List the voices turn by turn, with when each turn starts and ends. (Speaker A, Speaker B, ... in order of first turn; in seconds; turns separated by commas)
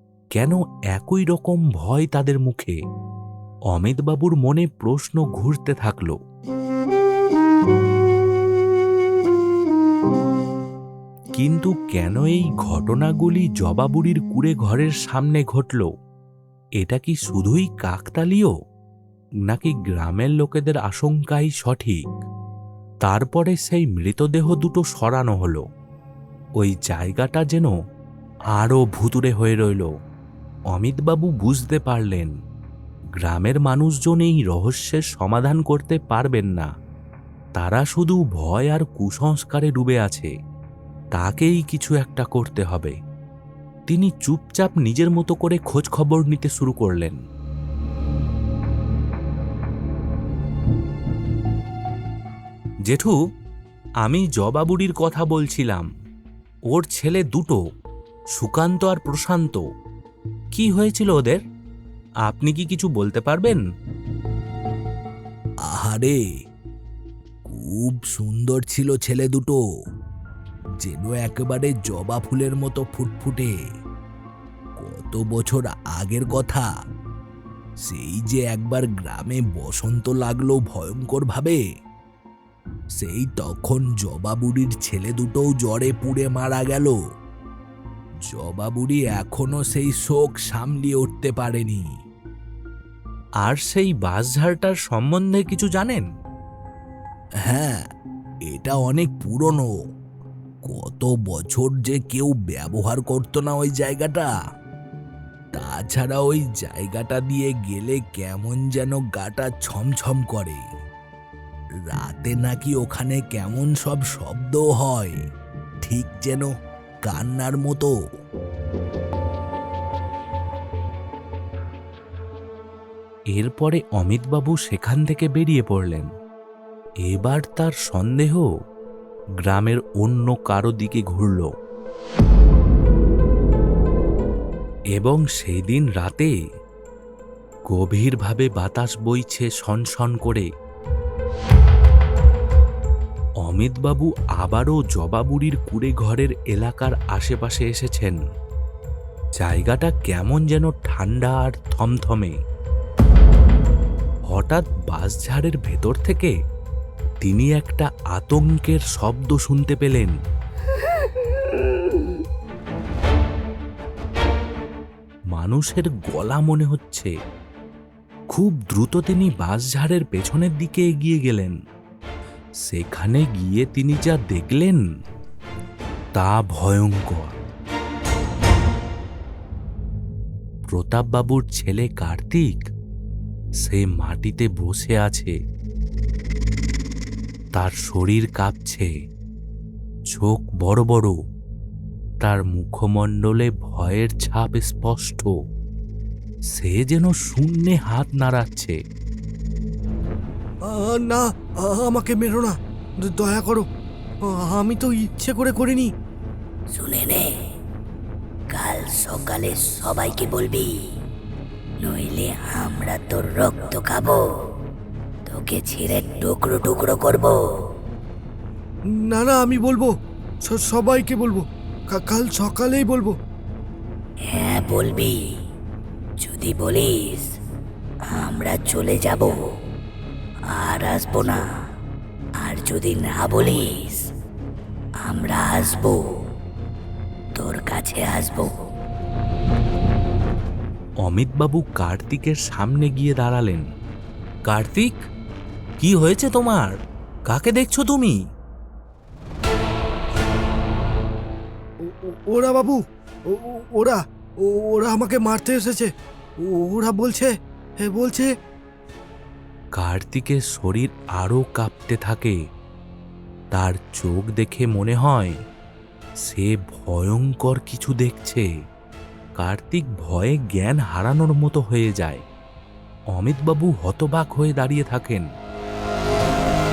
Speaker A: 0.3-2.8, Speaker A: 3.7-6.2, Speaker A: 11.4-15.9, Speaker A: 16.8-18.5, Speaker A: 19.5-22.1, Speaker A: 23.0-25.6, Speaker A: 26.6-27.7, Speaker A: 28.6-29.9, Speaker A: 30.7-32.3, Speaker A: 33.2-36.7, Speaker A: 37.6-40.3, Speaker A: 41.1-42.9, Speaker A: 43.9-47.2, Speaker A: 52.9-53.2, Speaker A: 54.0-55.9, Speaker A: 56.7-57.6, Speaker A: 58.3-59.6, Speaker A: 60.5-61.4, Speaker A: 62.2-63.6, Speaker B: 65.7-66.2, Speaker B: 67.4-69.6, Speaker B: 70.8-73.5, Speaker B: 74.8-76.7, Speaker B: 77.8-81.6, Speaker B: 83.0-87.0, Speaker B: 88.2-91.9, Speaker A: 93.4-96.0, Speaker B: 97.4-97.8, Speaker B: 98.5-99.7, Speaker B: 100.7-104.3, Speaker B: 105.5-110.6, Speaker B: 111.9-115.2, Speaker B: 115.8-116.5, Speaker B: 117.0-117.9, Speaker A: 123.3-126.1, Speaker A: 127.0-128.4, Speaker A: 129.4-131.5, Speaker A: 134.9-136.3, Speaker A: 137.7-140.5, Speaker A: 143.4-148.2, Speaker A: 149.4-152.3, Speaker A: 154.3-156.3, Speaker A: 157.2-160.2, Speaker A: 165.3-167.1, Speaker A: 168.3-171.6, Speaker A: 172.6-174.8, Speaker A: 176.2-177.3, Speaker A: 180.7-182.7, Speaker A: 183.6-185.3, Speaker A: 187.6-188.9, Speaker A: 190.1-191.1, Speaker A: 192.2-195.3, Speaker A: 196.5-198.8, Speaker C: 200.6-203.7, Speaker C: 204.2-205.9, Speaker D: 206.7-207.3, Speaker D: 208.5-210.7, Speaker D: 211.8-214.2, Speaker D: 215.3-217.3, Speaker C: 218.9-219.9, Speaker C: 220.4-223.2, Speaker D: 224.3-225.1, Speaker D: 226.2-227.3, Speaker D: 228.1-229.4, Speaker D: 230.5-231.4, Speaker D: 232.4-234.0, Speaker D: 235.0-236.0, Speaker D: 237.4-238.5, Speaker A: 241.0-243.6, Speaker A: 244.5-245.0, Speaker A: 245.8-246.8, Speaker A: 247.3-248.2, Speaker C: 251.8-258.3, Speaker A: 259.8-262.4, Speaker A: 263.5-265.4, Speaker A: 266.2-268.4, Speaker A: 269.4-272.2, Speaker A: 273.1-275.3